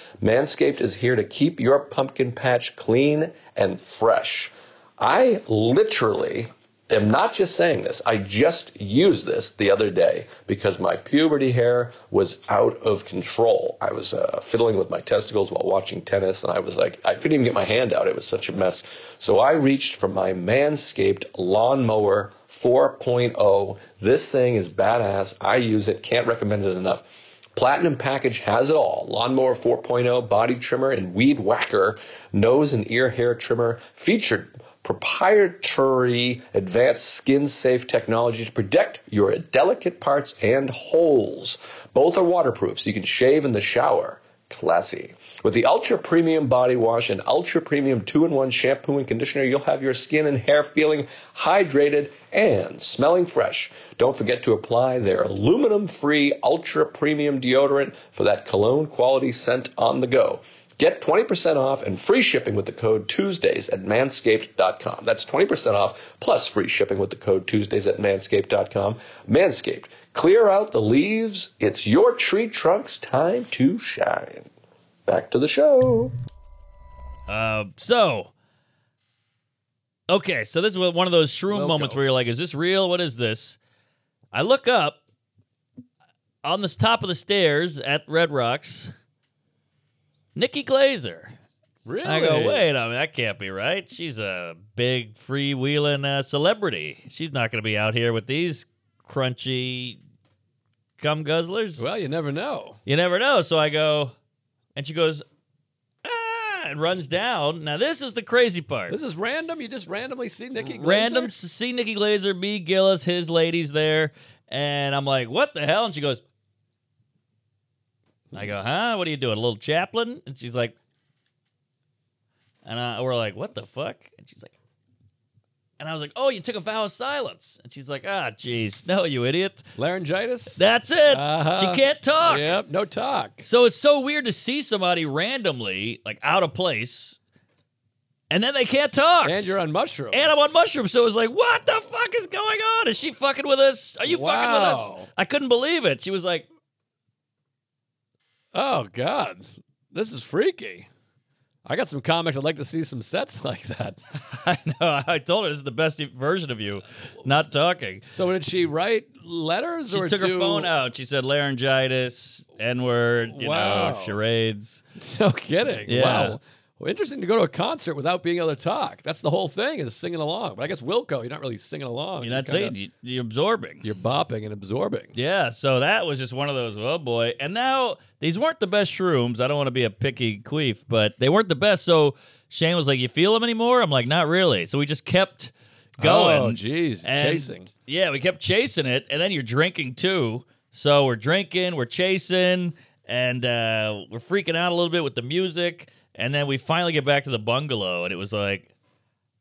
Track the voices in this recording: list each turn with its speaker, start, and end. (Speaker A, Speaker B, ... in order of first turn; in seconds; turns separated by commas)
Speaker A: 0.2-74.5, Speaker A: 75.1-76.1, Speaker B: 77.3-78.3, Speaker B: 80.1-83.6, Speaker C: 81.5-82.0, Speaker B: 84.3-85.0, Speaker B: 86.4-88.9, Speaker B: 90.3-91.4, Speaker C: 91.8-92.7, Speaker B: 92.0-100.0, Speaker B: 101.0-101.8, Speaker C: 101.8-102.8, Speaker B: 102.8-104.1, Speaker B: 104.8-105.2, Speaker B: 106.0-109.0, Speaker C: 108.9-111.3, Speaker B: 110.6-116.2, Speaker B: 118.3-120.8, Speaker B: 122.6-124.5, Speaker B: 125.8-129.7, Speaker C: 129.8-133.5, Speaker B: 130.6-132.6, Speaker B: 133.4-137.2, Speaker B: 138.3-139.6, Speaker C: 139.2-140.5, Speaker B: 140.1-146.5, Speaker C: 144.1-145.1, Speaker C: 148.5-150.9, Speaker C: 151.7-154.0, Speaker B: 154.1-158.1, Speaker C: 158.1-160.7, Speaker B: 159.9-164.8, Speaker C: 163.3-164.2, Speaker C: 165.0-172.8, Speaker B: 165.9-166.4, Speaker B: 172.2-173.8, Speaker C: 173.8-175.1, Speaker B: 175.1-198.7, Speaker C: 186.0-187.7